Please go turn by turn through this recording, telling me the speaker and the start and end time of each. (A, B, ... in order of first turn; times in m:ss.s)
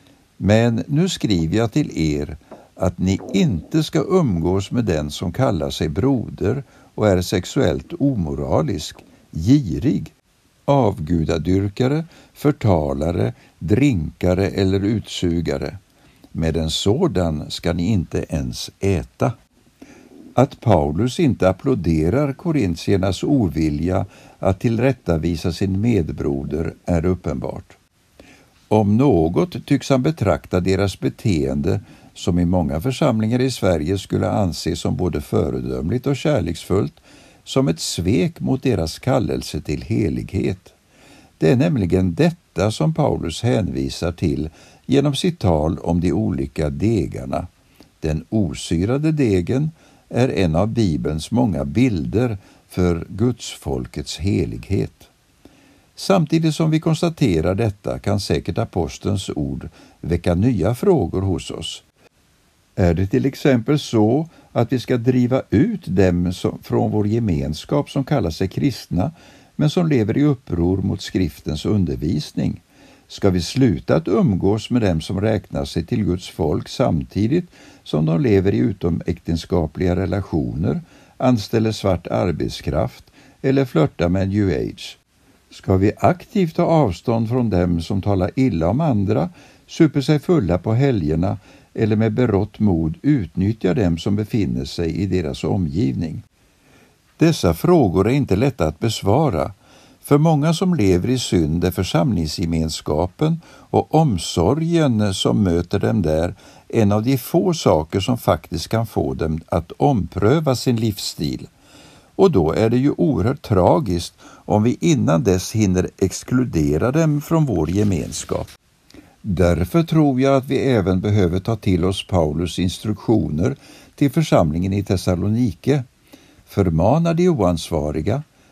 0:00.4-0:10.1 A
0:10.7-0:15.8 A
0:16.3-0:19.3 A
0:20.4-0:27.8 A
0:28.7-0:40.8 A
0:41.4-0:47.5 A
0:48.0-0:55.1 A
0:56.0-1:01.8 A
1:02.8-1:25.0 A
1:25.5-1:36.2 A
1:37.2-1:51.5 A
1:52.2-1:58.5 A
1:59.2-2:05.8 A
2:06.4-2:08.2 A